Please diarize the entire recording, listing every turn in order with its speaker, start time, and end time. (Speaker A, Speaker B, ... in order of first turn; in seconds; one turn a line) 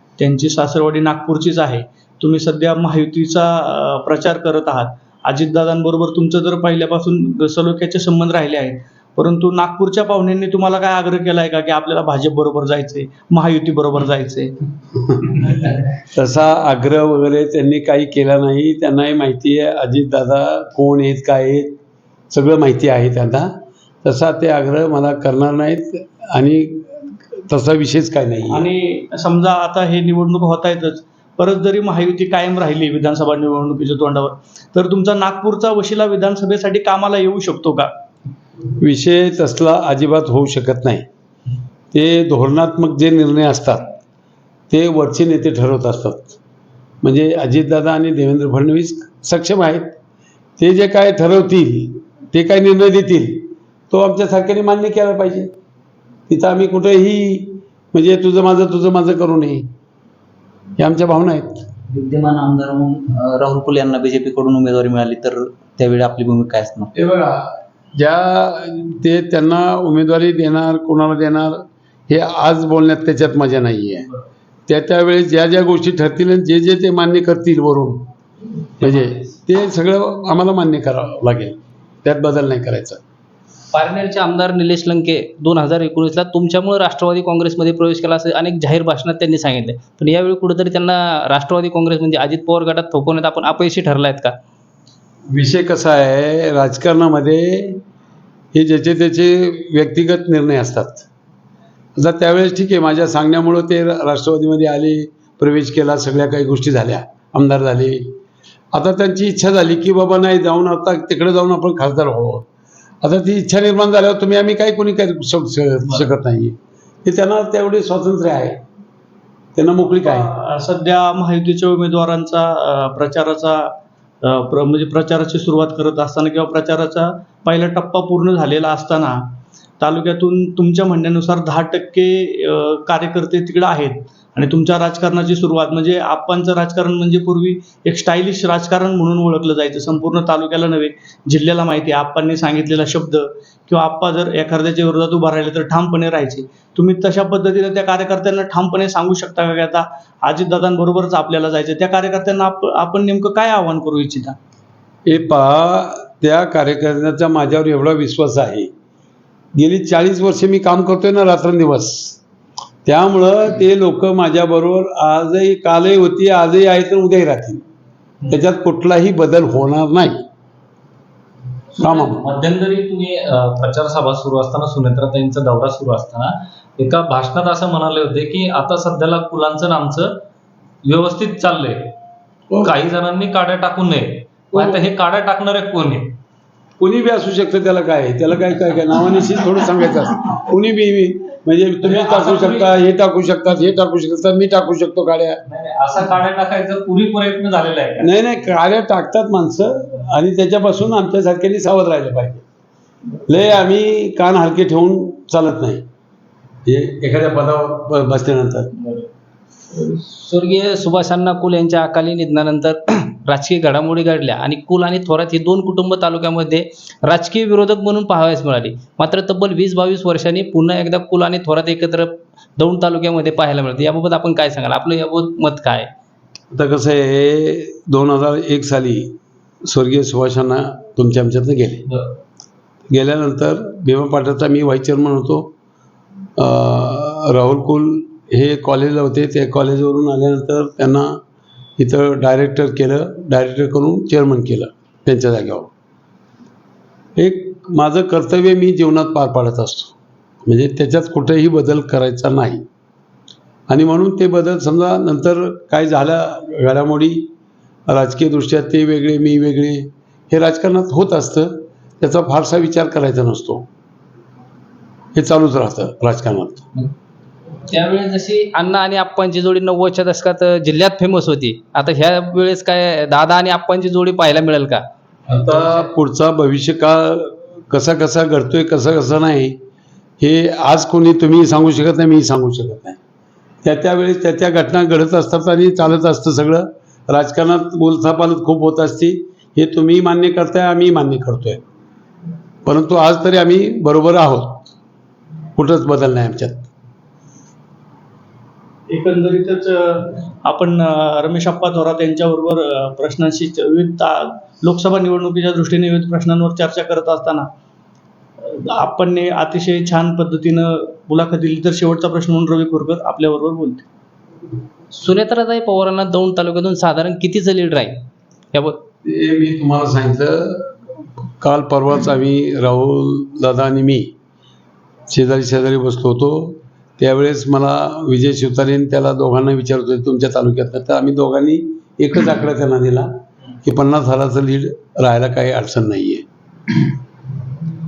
Speaker A: 0.2-14.5
Speaker B: 16.1-21.8
Speaker B: 22.3-23.5
Speaker B: 24.0-28.7
Speaker A: 28.5-37.9
Speaker B: 38.8-41.0
Speaker B: 41.9-43.9
Speaker B: 44.7-46.4
Speaker B: 47.0-49.9
Speaker B: 50.6-55.5
Speaker B: 56.3-59.6
Speaker B: 60.8-61.6
Speaker C: 61.9-66.9
Speaker B: 66.9-74.1
Speaker B: 74.7-78.1
Speaker B: 78.8-83.0
Speaker D: 83.7-94.4
Speaker B: 95.3-97.8
Speaker B: 98.5-101.0
Speaker B: 102.0-108.1
Speaker B: 108.7-112.5
Speaker B: 113.0-118.6
Speaker B: 119.5-120.3
Speaker A: 120.0-154.3
Speaker B: 155.1-158.7
Speaker B: 159.5-162.2
Speaker B: 162.8-167.6
Speaker B: 168.3-170.2
Speaker B: 171.8-172.2
Speaker E: 171.8-180.2
Speaker E: 180.8-181.9
Speaker B: 182.5-182.7
Speaker E: 182.6-186.2
Speaker B: 184.5-184.8
Speaker B: 186.8-195.4
Speaker E: 191.8-192.7
Speaker E: 195.5-198.1
Speaker B: 198.0-202.4
Speaker B: 203.3-205.8
Speaker B: 206.6-208.7
Speaker D: 209.7-225.9
Speaker B: 226.5-231.9
Speaker B: 232.9-235.5
Speaker B: 236.4-241.2
Speaker B: 241.8-245.7
Speaker B: 247.2-252.6
Speaker B: 253.7-257.3
Speaker B: 257.9-263.6
Speaker B: 265.1-266.6
Speaker D: 267.7-274.8
Speaker B: 275.3-279.6
Speaker B: 280.2-283.0
Speaker B: 283.6-291.6
Speaker B: 292.6-294.7
Speaker B: 295.5-296.7
Speaker A: 298.9-307.5
Speaker A: 308.5-313.8
Speaker D: 314.9-318.8
Speaker B: 319.0-320.7
Speaker B: 321.4-324.1
Speaker B: 325.1-333.1
Speaker B: 333.6-336.2